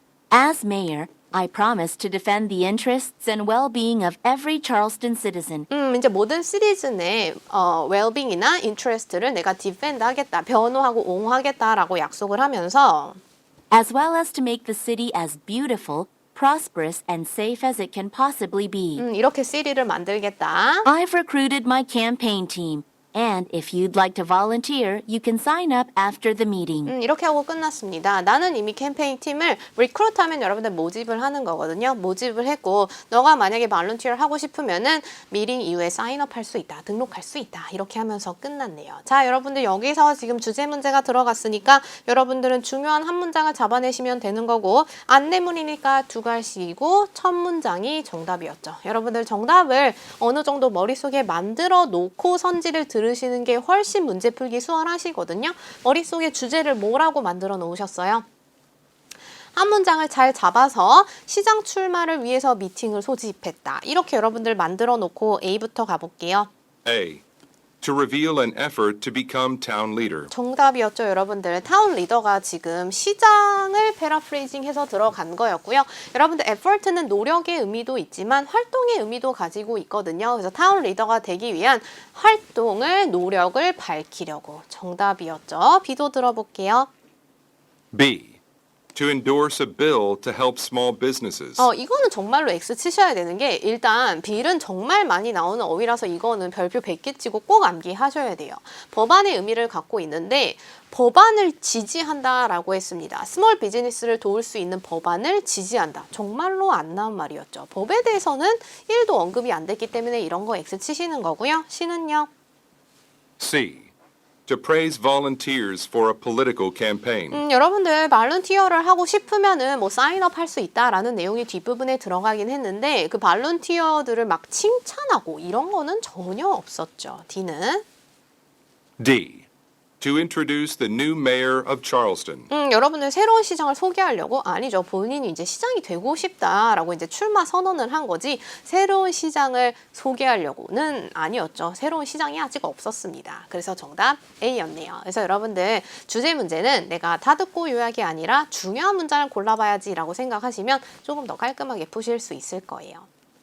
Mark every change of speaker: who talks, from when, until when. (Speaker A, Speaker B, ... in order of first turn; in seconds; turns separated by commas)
Speaker A: 0.3-5.7, Speaker B: 5.7-13.2, Speaker A: 13.7-19.0, Speaker B: 19.0-20.9, Speaker A: 20.9-26.9, Speaker B: 26.9-58.2, Speaker B: 59.5-66.5, Speaker C: 66.8-67.2, Speaker C: 67.8-70.3, Speaker B: 70.3-86.9, Speaker C: 87.9-88.4, Speaker C: 88.9-91.7, Speaker B: 91.6-112.3, Speaker C: 113.4-113.9, Speaker C: 114.5-117.4, Speaker B: 117.3-127.8, Speaker C: 129.0-129.5, Speaker C: 130.0-132.5, Speaker B: 132.5-153.1